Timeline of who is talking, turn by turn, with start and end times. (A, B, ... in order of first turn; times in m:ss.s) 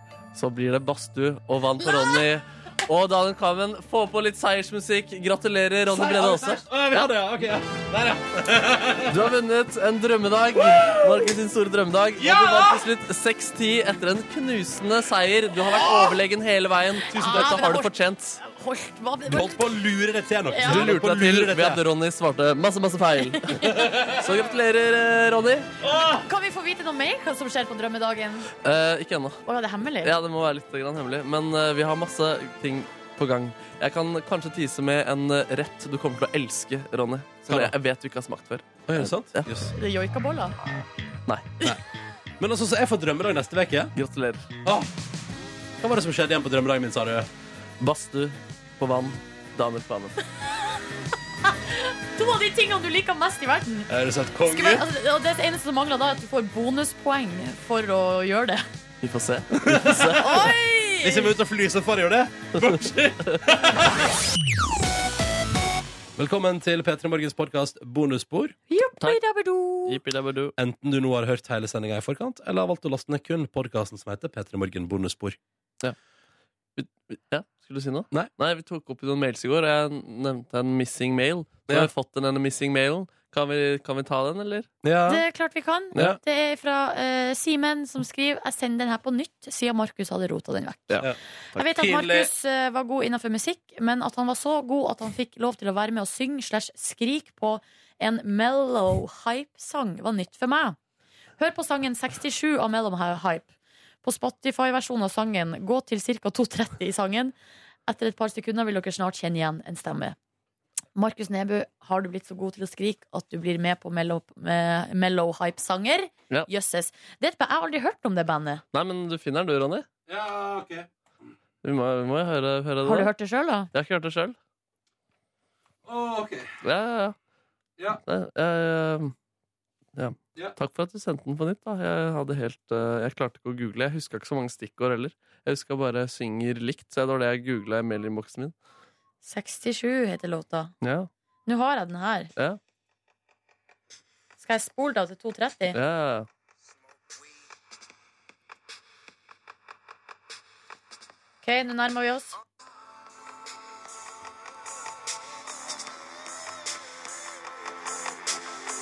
0:00.3-0:06.7 A
0:05.9-0:09.3 B
0:09.1-0:18.4 A
0:10.6-0:11.3 B
0:12.2-0:12.9 B
0:15.8-0:16.1 B
0:17.0-0:19.7 C
0:17.1-0:17.6 B
0:19.3-0:21.8 B
0:20.5-0:21.0 C
0:20.6-0:25.7 A
0:23.3-0:23.9 C
0:23.6-0:24.2 B
0:25.8-0:26.3 B
0:26.2-0:28.5 C
0:28.6-0:29.4 A
0:29.5-0:30.1 C
0:30.0-0:39.5 A
0:37.5-0:37.7 B
0:38.9-0:39.7 B
0:39.7-0:40.6 C
0:41.3-0:41.6 A
0:42.4-0:43.9 B
0:44.0-0:44.5 A
0:45.8-0:47.3 B
0:47.8-0:50.2 A
0:51.5-0:53.9 C
0:53.9-0:54.9 B
0:54.5-0:58.7 C
0:59.0-1:00.5 A
0:59.6-1:00.2 B
1:00.1-1:01.3 C
1:01.0-1:04.1 B
1:06.2-1:08.6 B
1:08.7-1:10.0 C
1:09.9-1:10.5 A
1:10.6-1:15.4 B
1:16.8-1:24.7 A
1:24.8-1:25.2 B
1:25.1-1:40.8 C
1:31.0-1:32.3 B
1:41.4-1:43.5 C
1:44.0-1:47.3 C
1:47.9-1:50.2 C
1:51.0-1:58.6 C
1:58.7-1:59.9 A
2:00.1-2:00.9 B
2:01.6-2:03.1 A
2:02.8-2:03.7 C
2:03.7-2:04.4 A
2:05.8-2:06.6 B
2:06.6-2:07.2 A
2:07.9-2:09.2 A
2:10.0-2:18.5 A
2:19.2-2:20.7 C
2:20.8-2:21.1 A
2:21.5-2:22.3 C
2:24.4-2:25.8 C
2:25.7-2:26.3 A
2:31.4-2:32.3 C